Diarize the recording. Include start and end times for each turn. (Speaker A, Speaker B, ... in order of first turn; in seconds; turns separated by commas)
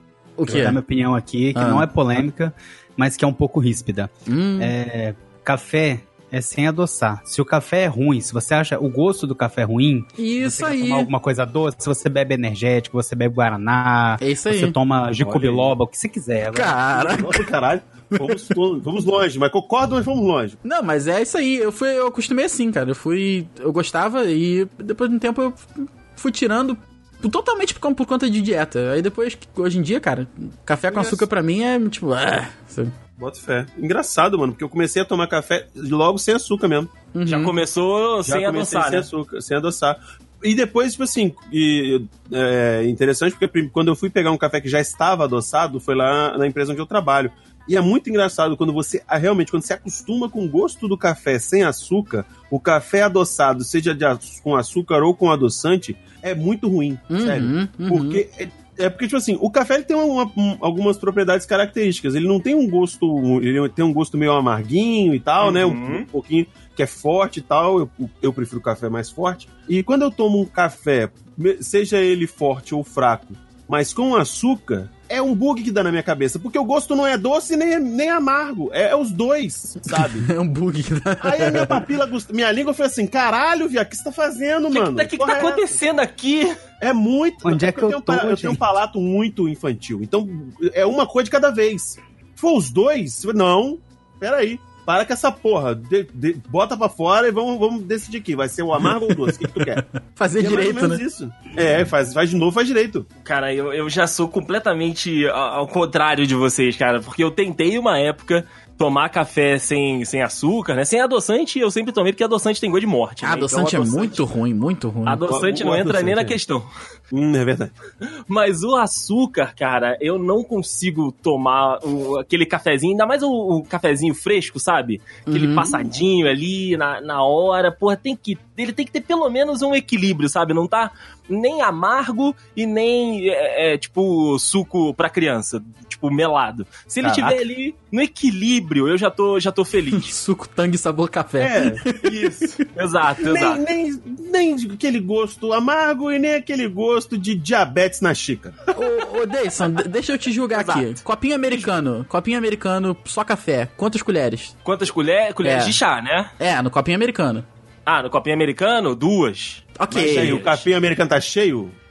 Speaker A: 0.4-0.8, Speaker B: 0.5-16.8, Speaker A: 1.6-1.9, Speaker A: 4.3-4.7, Speaker A: 10.2-11.1, Speaker A: 14.2-14.8, Speaker C: 15.2-15.8, Speaker A: 16.5-17.4, Speaker C: 16.9-20.6, Speaker A: 20.6-32.9, Speaker C: 30.9-31.2, Speaker C: 33.2-36.9, Speaker A: 37.1-37.5, Speaker D: 37.2-39.1, Speaker C: 38.3-80.3, Speaker A: 57.1-58.2, Speaker D: 65.4-66.1, Speaker A: 80.2-81.8, Speaker C: 81.2-85.8, Speaker D: 84.7-86.6, Speaker C: 86.8-99.8, Speaker B: 87.4-88.6, Speaker A: 99.1-101.0, Speaker C: 100.4-103.1, Speaker D: 103.2-114.2, Speaker A: 113.2-115.2, Speaker D: 115.1-116.7, Speaker C: 115.3-116.4, Speaker C: 117.1-117.7, Speaker D: 118.3-140.2, Speaker A: 125.3-125.8, Speaker C: 137.0-137.4, Speaker A: 139.9-142.6, Speaker C: 141.4-141.8, Speaker D: 142.0-143.6, Speaker C: 143.2-148.6, Speaker A: 148.7-154.5, Speaker D: 150.6-151.0, Speaker D: 154.7-156.3, Speaker A: 155.4-155.8, Speaker A: 156.4-157.5, Speaker D: 157.9-160.7, Speaker A: 159.8-160.6, Speaker C: 159.9-161.8